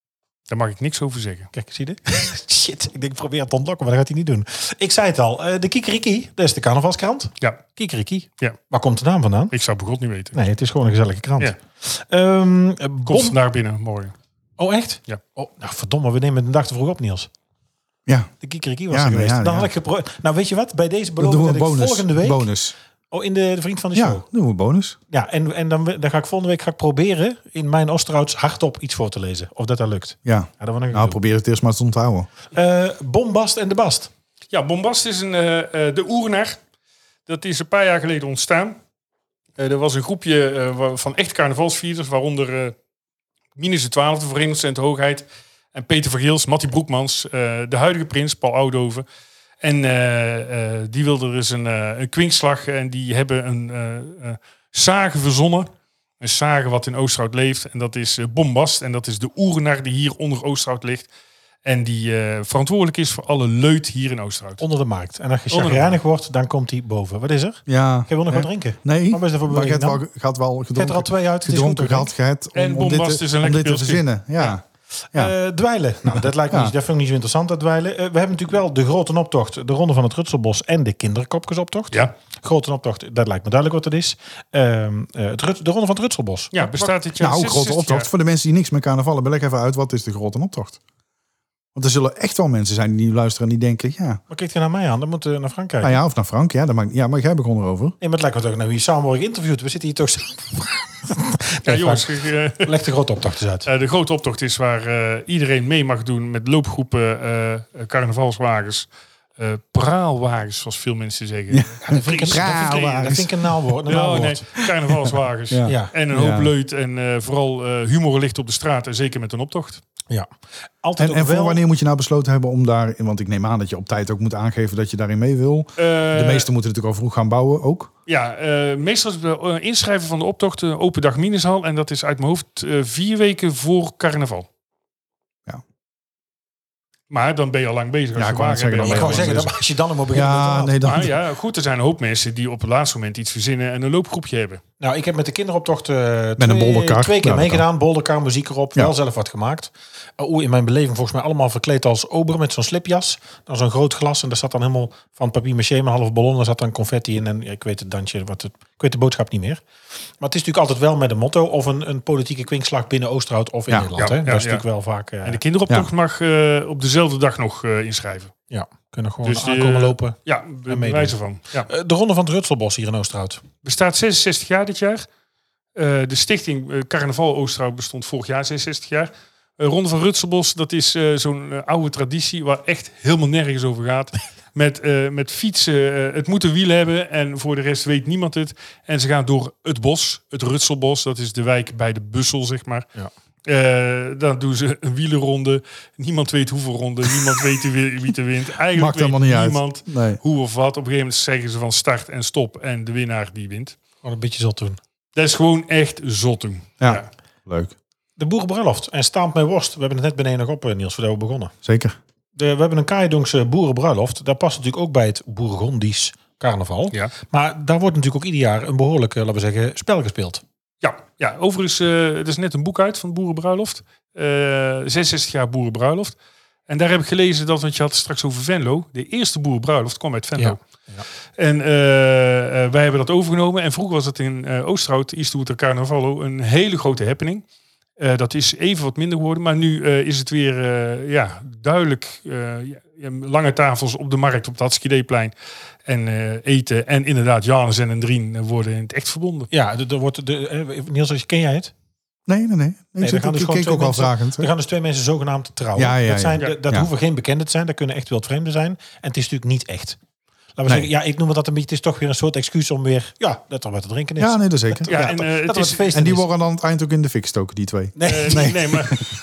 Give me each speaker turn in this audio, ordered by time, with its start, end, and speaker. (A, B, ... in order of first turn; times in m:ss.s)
0:00.5-0:01.5 A
0:01.5-0:09.5 B
0:09.5-0:10.4 A
0:10.3-0:13.4 B
0:13.1-0:14.1 A
0:14.6-0:17.3 B
0:18.4-0:22.5 B
0:18.9-0:19.7 C
0:21.2-0:22.7 C
0:23.1-0:24.2 B
0:23.9-0:25.0 C
0:25.1-0:31.2 B
0:30.2-0:32.3 C
0:32.5-0:34.1 B
0:34.5-0:36.6 A
0:37.3-0:38.8 A
0:39.6-0:42.7 A
0:43.6-0:49.0 A
0:49.6-0:55.7 A
0:56.2-1:01.1 A
1:01.6-1:04.6 A
1:04.6-1:10.0 B
1:05.5-1:06.0 A
1:07.7-1:14.6 C
1:10.7-1:12.1 B
1:12.5-1:14.0 A
1:15.1-1:26.8 B
1:16.1-1:16.7 C
1:26.5-1:28.1 A
1:27.1-1:30.8 C
1:31.7-1:34.2 C
1:34.3-1:36.0 B
1:35.8-1:38.0 C
1:38.0-1:42.1 B
1:41.6-1:42.7 A
1:42.6-1:43.7 B
1:43.6-1:53.3 A
1:51.5-1:53.7 C
1:51.8-1:54.4 B
1:53.9-1:59.8 A
1:54.6-1:56.5 C
1:55.6-1:55.9 B
2:00.8-2:01.6 B
2:01.0-2:07.9 C
2:05.8-2:06.5 A
2:08.1-2:14.5 A
2:17.1-2:19.4 A
2:18.2-2:19.6 C
2:18.8-2:20.8 B
2:20.1-2:21.1 C
2:20.8-2:24.6 A
2:24.8-2:39.6 B
2:26.4-2:27.6 C
2:40.2-2:45.4 B
2:44.0-2:44.6 A
2:45.2-2:48.3 A
2:48.5-2:51.2 B
2:49.2-2:51.7 A
2:51.7-2:53.4 B
2:53.6-2:55.0 A
2:55.7-3:12.9 A
3:13.4-3:23.8 A
3:18.7-3:20.2 C
3:24.0-3:24.8 B
3:25.2-3:27.1 A
3:26.8-3:27.7 C
3:28.2-3:31.5 B
3:31.6-3:32.0 C
3:32.4-3:40.4 B
3:40.8-3:46.2 A
3:46.7-3:50.6 A
3:50.4-3:51.0 B
3:51.4-3:57.4 A
3:58.0-4:05.3 A
4:05.8-4:09.5 A
4:09.5-4:11.7 B
4:12.3-4:14.5 C
4:13.0-4:20.0 B
4:15.8-4:16.9 C
4:20.6-4:26.2 B
4:24.2-4:24.9 C
4:24.9-4:25.9 A
4:25.9-4:29.0 C
4:27.9-4:28.5 B
4:28.0-4:29.0 A